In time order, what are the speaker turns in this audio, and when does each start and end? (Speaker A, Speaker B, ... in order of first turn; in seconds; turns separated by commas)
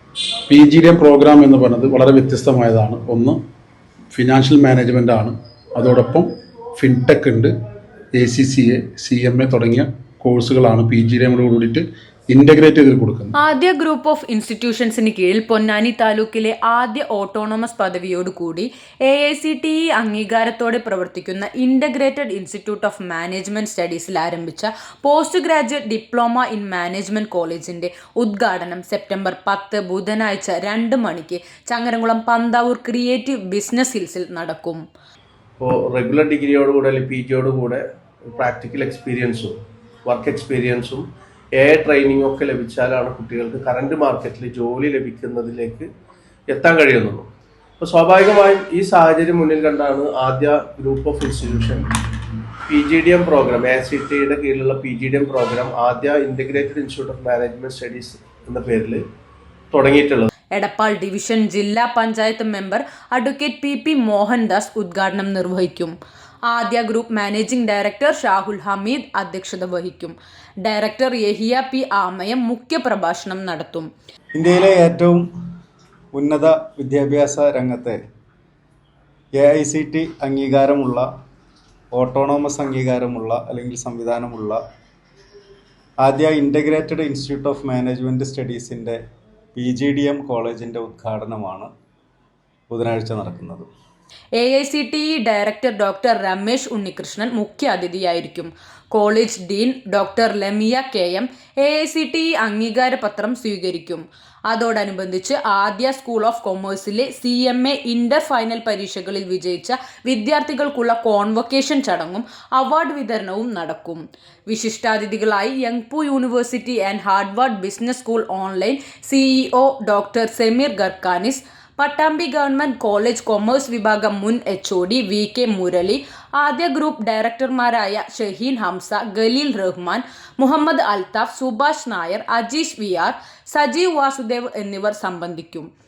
Speaker A: 0.5-3.4, Speaker A: 4.1-7.5, Speaker A: 8.1-13.3, Speaker B: 13.4-34.8, Speaker C: 35.6-39.5, Speaker C: 40.1-41.0, Speaker C: 41.5-45.9, Speaker C: 46.5-47.3, Speaker C: 47.8-51.9, Speaker C: 52.7-59.0, Speaker C: 59.7-60.3, Speaker B: 60.5-66.0, Speaker B: 66.5-73.9, Speaker D: 74.3-75.2, Speaker D: 76.1-78.0, Speaker D: 79.4-81.1, Speaker D: 81.9-84.6, Speaker D: 86.0-89.0, Speaker D: 89.5-91.7, Speaker D: 92.7-93.7, Speaker B: 94.4-135.7